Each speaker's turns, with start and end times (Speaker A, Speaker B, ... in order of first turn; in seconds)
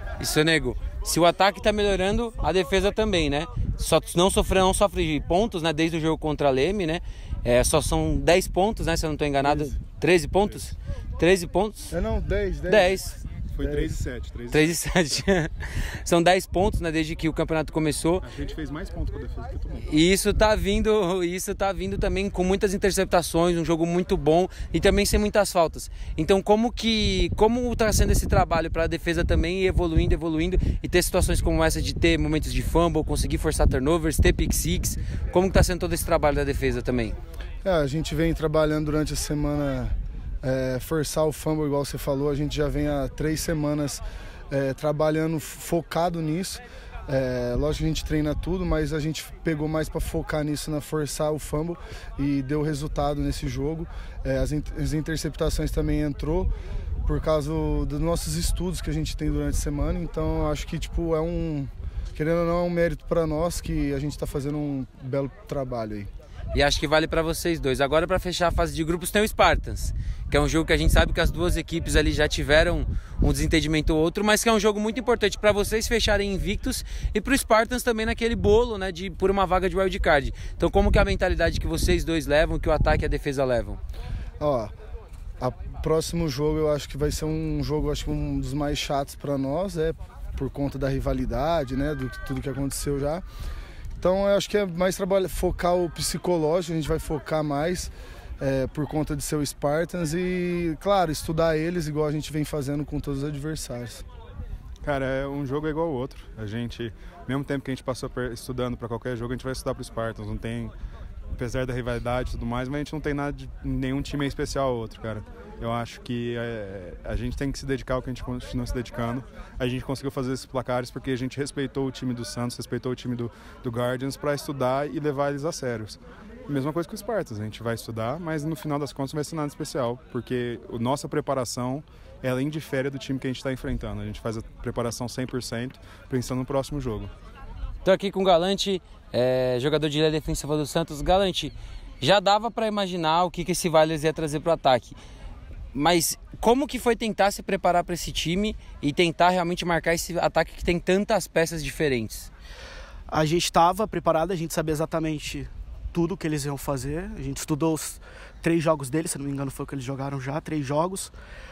Speaker A: 0.2-11.9, 12.7-13.2, 14.5-15.5, 16.1-18.3, 19.8-37.2, 66.5-83.8, 137.8-145.0, 145.7-152.3
Speaker B: 10.4-10.7, 13.5-15.2, 18.2-19.9, 104.8-110.7, 111.3-137.1
Speaker C: 11.9-14.0, 37.6-56.5, 57.1-66.1, 84.4-84.7, 85.4-93.2, 94.0-104.0
Speaker D: 153.1-161.1